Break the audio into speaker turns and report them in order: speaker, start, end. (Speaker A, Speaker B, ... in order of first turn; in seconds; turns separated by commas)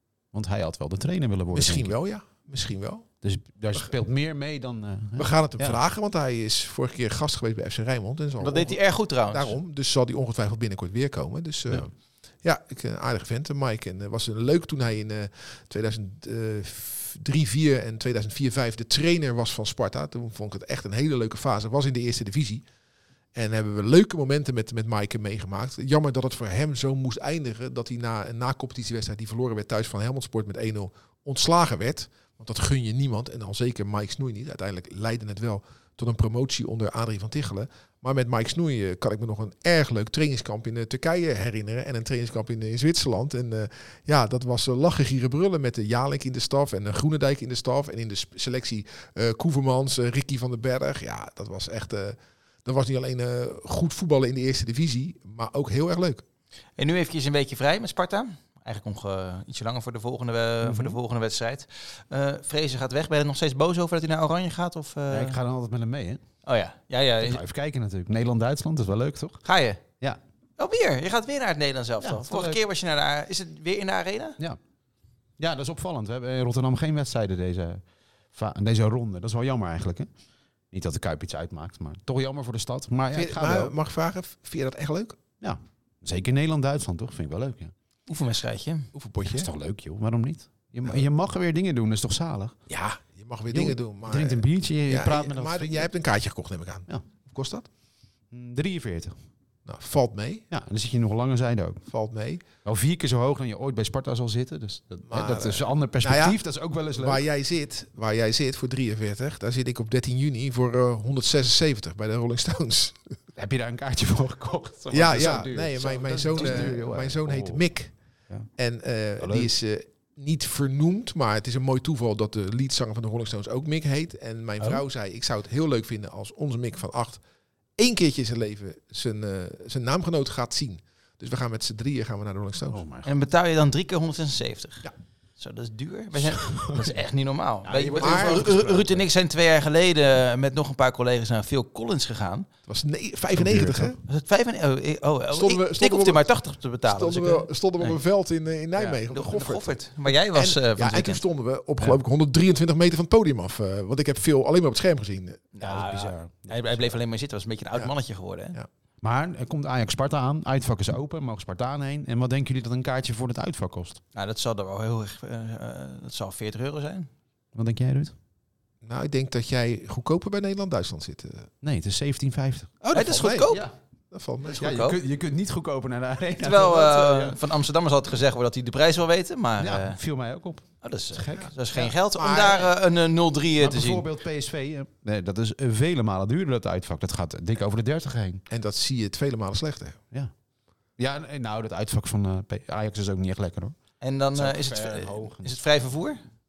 Speaker A: 0.3-1.9, Speaker B: 1.5-3.1, Speaker A: 3.2-5.8, Speaker B: 5.2-11.9, Speaker C: 8.4-9.6, Speaker B: 12.4-22.6, Speaker B: 23.3-56.2, Speaker C: 56.8-65.3, Speaker A: 60.6-61.0, Speaker A: 65.1-66.2, Speaker C: 66.4-67.4, Speaker A: 67.2-69.4, Speaker C: 69.4-69.8, Speaker C: 70.6-74.4, Speaker A: 72.0-72.6, Speaker A: 75.4-80.1, Speaker A: 80.7-83.7, Speaker B: 83.1-85.2, Speaker A: 85.4-87.7, Speaker C: 88.1-88.9, Speaker B: 88.9-89.5, Speaker A: 89.2-92.5, Speaker B: 92.7-97.7, Speaker A: 93.5-95.9, Speaker A: 98.3-99.2, Speaker B: 99.7-100.5, Speaker A: 100.5-101.8, Speaker B: 101.9-102.4, Speaker A: 102.6-107.2, Speaker B: 105.1-106.4, Speaker B: 106.9-113.0, Speaker A: 113.3-117.6, Speaker B: 114.9-117.9, Speaker B: 118.6-127.2, Speaker A: 119.2-119.5, Speaker B: 127.8-132.8, Speaker A: 132.7-133.1, Speaker C: 133.0-142.5, Speaker A: 136.2-137.0, Speaker A: 137.6-139.1, Speaker B: 138.0-138.5, Speaker B: 142.7-144.0, Speaker A: 143.3-143.9, Speaker C: 144.1-148.0, Speaker B: 145.3-146.2, Speaker B: 146.8-155.4, Speaker C: 148.8-151.2, Speaker C: 155.5-158.6, Speaker A: 155.6-156.8, Speaker A: 159.0-164.0, Speaker C: 164.1-167.1, Speaker A: 167.5-168.1, Speaker B: 168.8-171.5, Speaker A: 171.6-172.7, Speaker B: 172.8-173.6, Speaker C: 172.9-173.6, Speaker A: 173.5-173.7, Speaker B: 174.1-174.7, Speaker A: 174.5-177.4, Speaker C: 174.5-175.0, Speaker C: 176.4-180.0, Speaker A: 179.6-181.5, Speaker C: 180.8-184.0, Speaker B: 181.4-182.7, Speaker A: 183.6-188.4, Speaker B: 188.5-190.0, Speaker A: 191.0-193.8, Speaker C: 194.0-196.2, Speaker A: 194.3-195.6